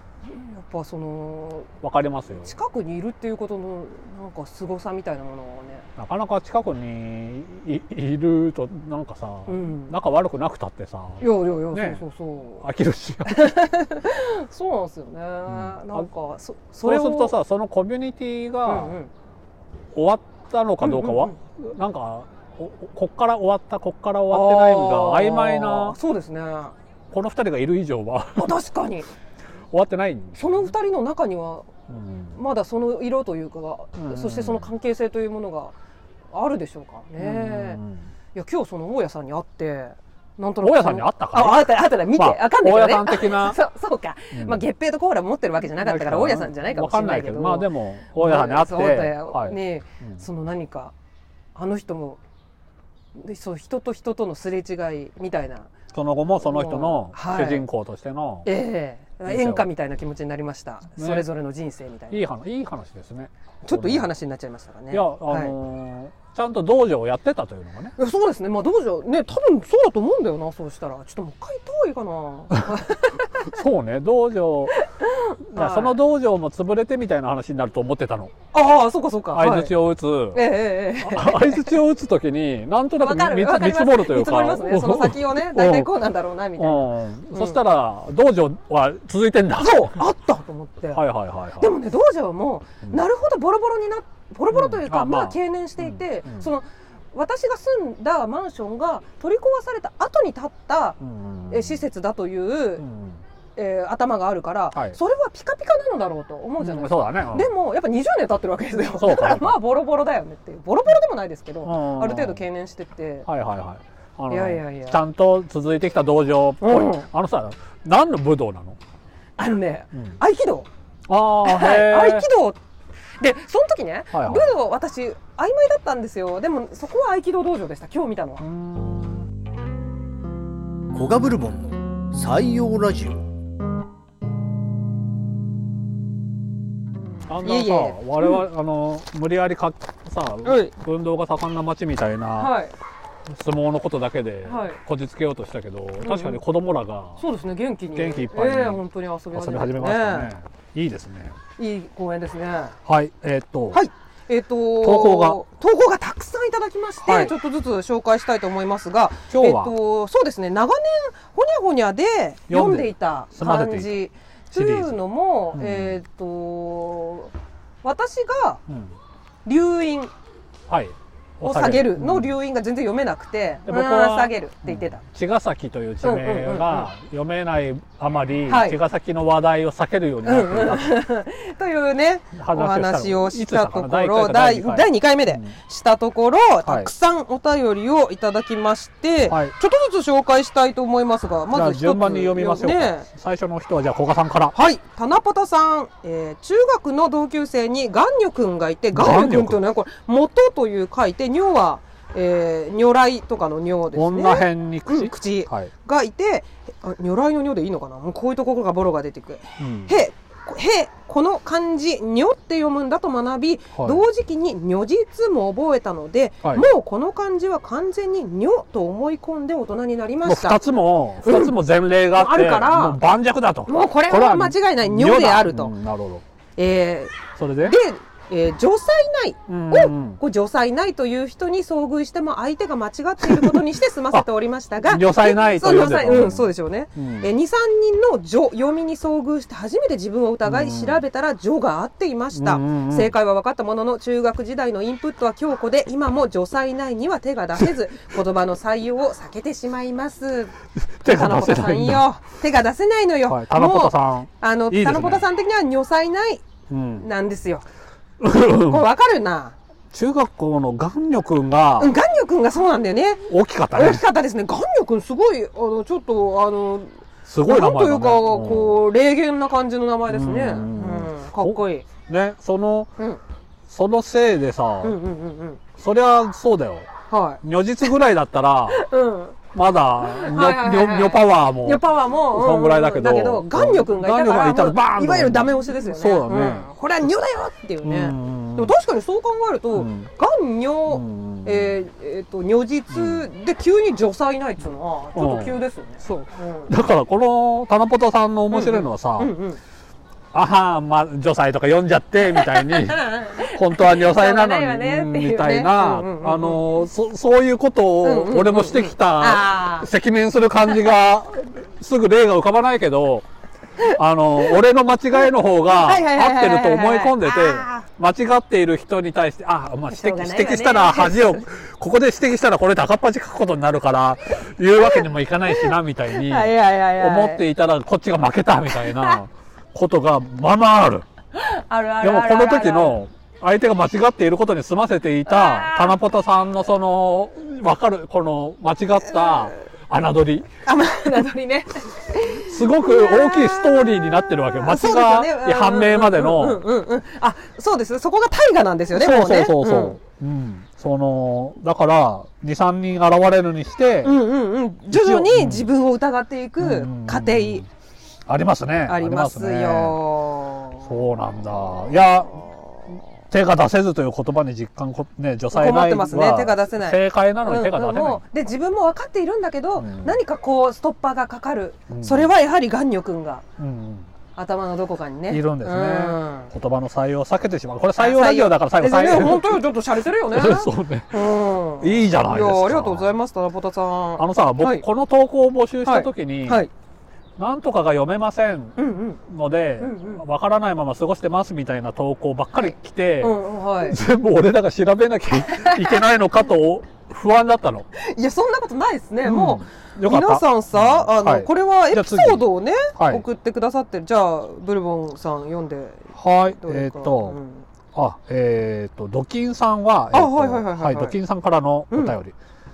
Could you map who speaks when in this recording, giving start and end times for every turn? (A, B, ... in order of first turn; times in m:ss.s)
0:00.2-0:01.7 A
0:01.8-0:02.5 B
0:02.4-0:05.9 A
0:06.0-0:12.0 B
0:09.5-0:10.0 A
0:11.2-0:12.6 A
0:12.6-0:13.6 B
0:13.2-0:17.3 A
0:15.5-0:16.1 B
0:16.8-0:19.0 B
0:18.6-0:19.1 A
0:19.9-0:26.0 B
0:20.8-0:21.4 A
0:24.3-0:26.7 A
0:27.1-0:28.6 B
0:28.4-0:29.1 A
0:29.7-0:30.7 B
0:30.4-0:31.7 A
0:31.9-0:32.4 B
0:32.3-0:35.7 A
0:34.0-0:34.7 B
0:36.3-0:37.8 A
0:37.2-0:38.1 B
0:38.3-0:50.9 A
0:40.6-0:43.6 B
0:44.3-0:44.6 B
0:45.8-0:50.2 B
0:51.5-0:52.2 A
0:53.1-0:55.7 A
0:55.9-0:58.5 B
0:56.4-0:57.6 A
0:58.4-1:02.2 A
0:59.3-0:59.7 B
1:01.0-1:01.3 B
1:02.1-1:04.1 B
1:03.6-1:05.5 A
1:04.9-1:07.9 B
1:08.0-1:13.5 A
1:13.5-1:14.7 B
1:14.8-1:16.0 A
1:15.5-1:18.3 B
1:18.5-1:19.7 A
1:19.3-1:20.4 B
1:20.3-1:21.7 A
1:21.0-1:25.9 B
1:23.0-1:27.6 A
1:26.6-1:30.0 B
1:29.6-1:31.0 A
1:30.9-1:31.7 B
1:31.6-1:41.0 A
1:34.5-1:36.5 B
1:41.0-1:41.8 B
1:41.5-1:42.8 A
1:42.8-1:43.2 B
1:43.6-1:53.3 A
1:46.6-1:47.5 B
1:49.0-1:49.6 B
1:51.6-1:52.4 B
1:53.2-1:58.8 B
1:54.3-1:55.0 A
1:56.6-1:57.0 A
1:59.4-2:00.7 A
2:01.1-2:02.3 B
2:01.4-2:02.6 A
2:03.2-2:08.4 A
2:04.1-2:04.5 B
2:08.4-2:09.2 B
2:10.9-2:13.2 C
2:17.3-2:22.5 B
2:17.4-2:18.4 A
2:20.4-2:20.7 A
2:22.4-2:22.7 A
2:23.3-2:27.2 B
2:24.4-2:24.8 A
2:26.0-2:26.4 A
2:27.2-2:30.3 A
2:27.9-2:28.8 B
2:29.3-2:31.4 B
2:31.6-2:32.8 A
2:32.8-2:33.8 B
2:33.7-2:48.6 A
2:34.8-2:35.4 B
2:37.0-2:37.3 B
2:39.3-2:39.7 B
2:42.5-2:43.9 B
2:44.5-2:45.0 B
2:45.5-2:46.0 B
2:48.7-2:48.9 B
2:49.4-2:50.1 A
2:50.7-2:52.3 B
2:51.4-2:55.0 A
2:53.6-3:01.0 B
2:56.0-2:56.9 A
2:58.5-2:58.8 A
3:00.2-3:13.0 A
3:02.3-3:05.5 B
3:06.6-3:06.9 B
3:09.3-3:09.5 B
3:11.5-3:14.6 B
3:14.5-3:40.6 A
3:18.9-3:19.6 B
3:23.9-3:25.7 B
3:29.6-3:30.0 B
3:33.8-3:34.0 B
3:36.4-3:36.7 B
3:40.2-3:46.2 B
3:41.2-3:41.5 A
3:42.1-3:43.0 A
3:43.7-3:45.7 A
3:46.6-4:17.6 A
3:47.4-3:47.8 B
3:49.5-3:50.2 B
3:53.2-3:54.3 B
3:54.8-3:57.3 B
4:00.4-4:01.0 B
4:02.3-4:03.1 B
4:10.8-4:12.0 B
4:13.2-4:15.2 B
4:16.7-4:17.1 B
4:18.2-4:18.8 B
4:18.6-4:19.5 A
4:19.9-4:21.9 B
4:21.8-4:31.8 A
4:23.3-4:24.0 B
4:27.2-4:28.8 B
4:30.1-4:32.9 B
4:33.7-4:35.0 B
4:34.8-4:35.6 A
4:35.8-4:36.9 B
4:37.1-4:37.4 A
4:37.4-4:38.8 B
4:38.7-4:39.4 A
4:39.5-4:46.7 B
4:40.0-4:56.7 A
4:47.8-4:48.7 B
4:49.7-4:50.1 B
4:50.9-4:51.8 B
4:52.9-4:53.3 B
4:55.1-4:55.6 B
4:56.7-4:59.3 B
4:58.5-4:59.6 A
5:00.3-5:13.2 B
5:02.3-5:06.6 A
5:08.0-5:09.9 A
5:13.8-5:31.0 B
5:15.7-5:17.8 A
5:19.9-5:21.4 A
5:24.8-5:27.4 A
5:28.8-5:29.2 A
5:31.3-5:33.0 A
5:32.0-5:40.5 B
5:35.2-5:36.0 A
5:40.6-5:50.0 A
5:42.3-5:46.6 B
5:48.9-5:54.2 B
5:54.0-5:57.6 A
5:54.9-5:55.7 B
5:56.6-5:57.7 B
5:58.3-6:00.0 B
5:58.8-6:00.9 A
6:00.8-6:02.4 B
6:01.9-6:02.5 A
6:03.3-6:08.2 B
6:05.5-6:13.4 A
6:09.8-6:10.2 B
6:11.9-6:12.3 B
6:13.6-6:14.1 B
6:14.3-6:16.5 A
6:15.3-6:19.8 B
6:18.0-6:24.8 A
6:20.3-6:21.3 B
6:21.8-6:23.1 B
6:24.2-6:26.6 B
6:25.8-6:26.7 A
6:27.4-6:37.9 B
6:28.8-6:29.2 A
6:29.8-6:30.2 A
6:32.5-6:34.0 A
6:35.5-6:36.0 A
6:37.9-6:47.6 A
6:39.2-6:43.2 B
6:46.1-6:47.4 B
6:47.9-6:52.3 B
6:50.1-6:51.2 A
6:51.9-6:52.2 A